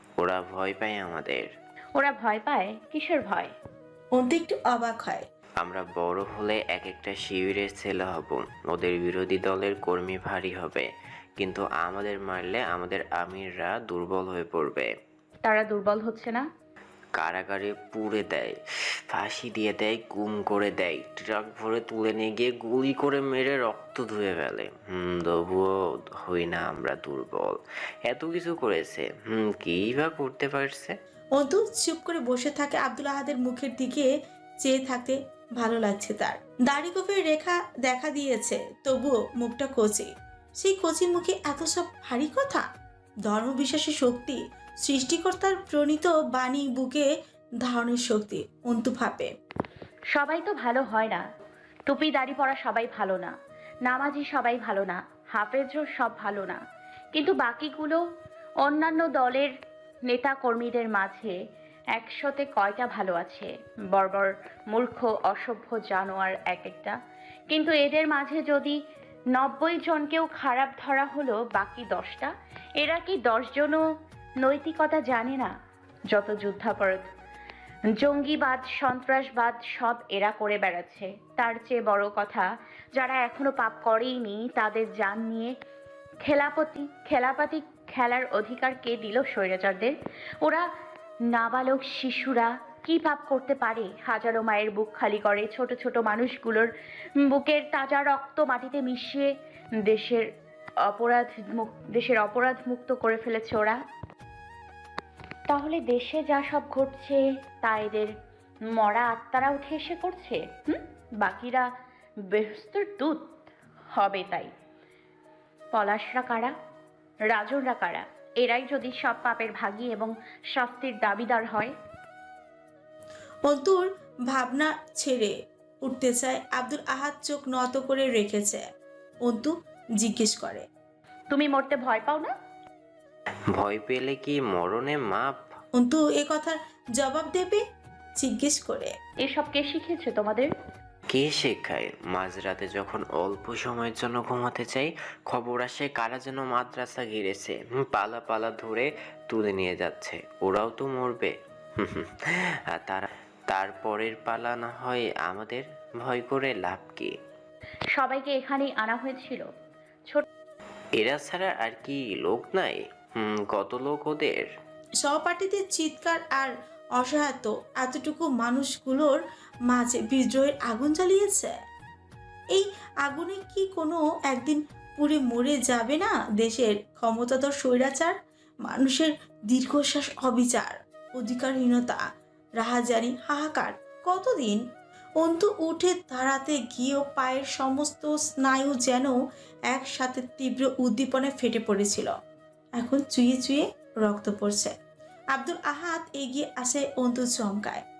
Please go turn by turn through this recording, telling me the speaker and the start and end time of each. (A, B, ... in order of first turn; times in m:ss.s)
0:00.2-0:01.5 A
0:02.0-0:03.5 B
0:04.1-0:05.2 C
0:05.6-0:14.9 A
0:15.4-0:16.5 B
0:17.1-0:18.6 A
0:19.1-0:31.0 A
0:31.4-0:34.1 C
0:34.6-0:42.7 C
0:43.2-0:47.1 C
0:47.6-0:49.3 C
0:50.1-0:51.2 B
0:51.9-0:56.6 B
0:57.1-0:58.0 B
0:58.6-0:59.5 B
1:00.1-1:01.4 B
1:01.9-1:07.0 B
1:07.5-1:08.8 B
1:09.3-1:13.8 B
1:14.4-1:15.5 B
1:16.1-1:17.1 B
1:17.9-1:25.5 B
1:26.2-1:30.6 B
1:31.3-1:36.7 B
1:37.2-1:39.3 B
1:39.8-1:40.3 B
1:40.8-1:43.8 B
1:45.5-1:48.1 B
1:48.7-1:51.7 B
1:52.3-1:53.3 B
1:53.9-1:54.5 B
1:55.7-1:56.5 B
1:57.3-2:01.7 B
2:03.4-2:08.6 C
2:09.2-2:10.6 C
2:11.3-2:12.3 B
2:13.5-2:15.4 A
2:15.8-2:17.6 C
2:18.2-2:18.9 C
2:19.2-2:20.5 B
2:21.1-2:37.1 A
2:37.9-2:39.5 B
2:41.0-2:44.5 A
2:45.0-2:51.6 C
2:52.5-3:02.0 C
3:02.6-3:04.6 C
3:05.2-3:09.2 C
3:09.7-3:12.1 C
3:12.8-3:14.8 C
3:15.3-3:17.8 C